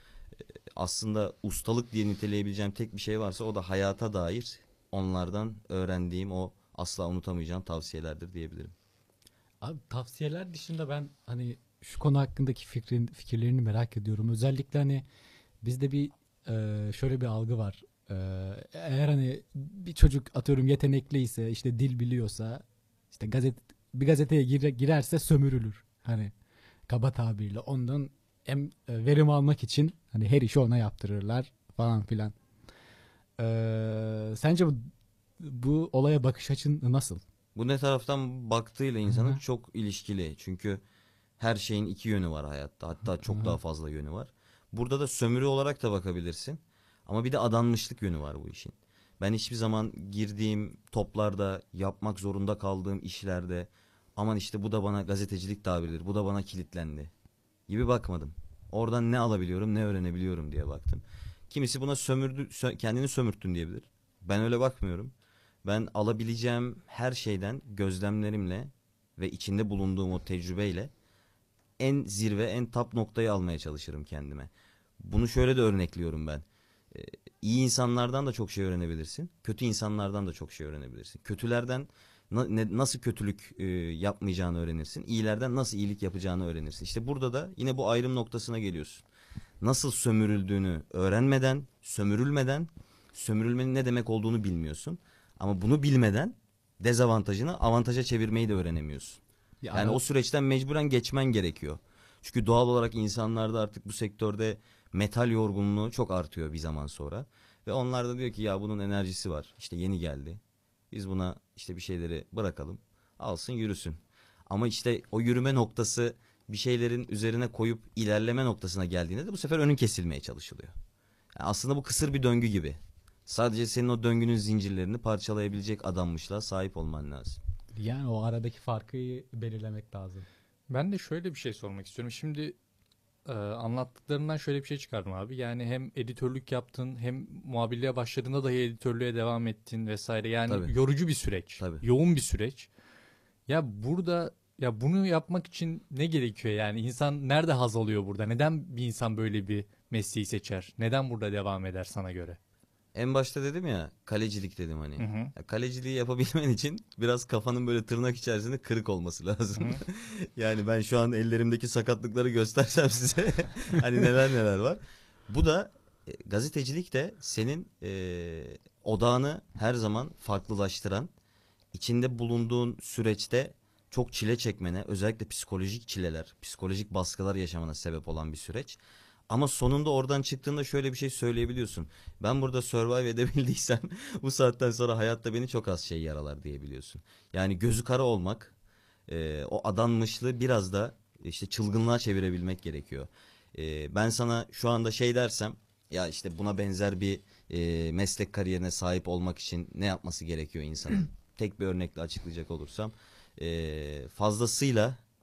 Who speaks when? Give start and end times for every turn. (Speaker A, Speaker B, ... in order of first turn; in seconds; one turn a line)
Speaker A: 0.7-8.7
Speaker B: 9.6-15.1
Speaker B: 15.6-26.3
Speaker B: 26.9-32.4
Speaker B: 33.4-37.2
Speaker A: 37.5-40.8
Speaker A: 41.4-57.1
Speaker A: 57.7-70.9
Speaker A: 71.8-89.0
Speaker A: 89.6-99.2
Speaker B: 99.6-100.0
Speaker A: 99.7-120.7
Speaker A: 121.4-127.4
Speaker B: 127.8-130.3
Speaker C: 130.7-132.6
Speaker C: 133.2-142.7
Speaker A: 141.6-141.8
Speaker C: 143.5-152.4
Speaker A: 152.9-171.1
Speaker C: 155.0-155.3
Speaker A: 171.7-188.5
Speaker A: 189.1-205.0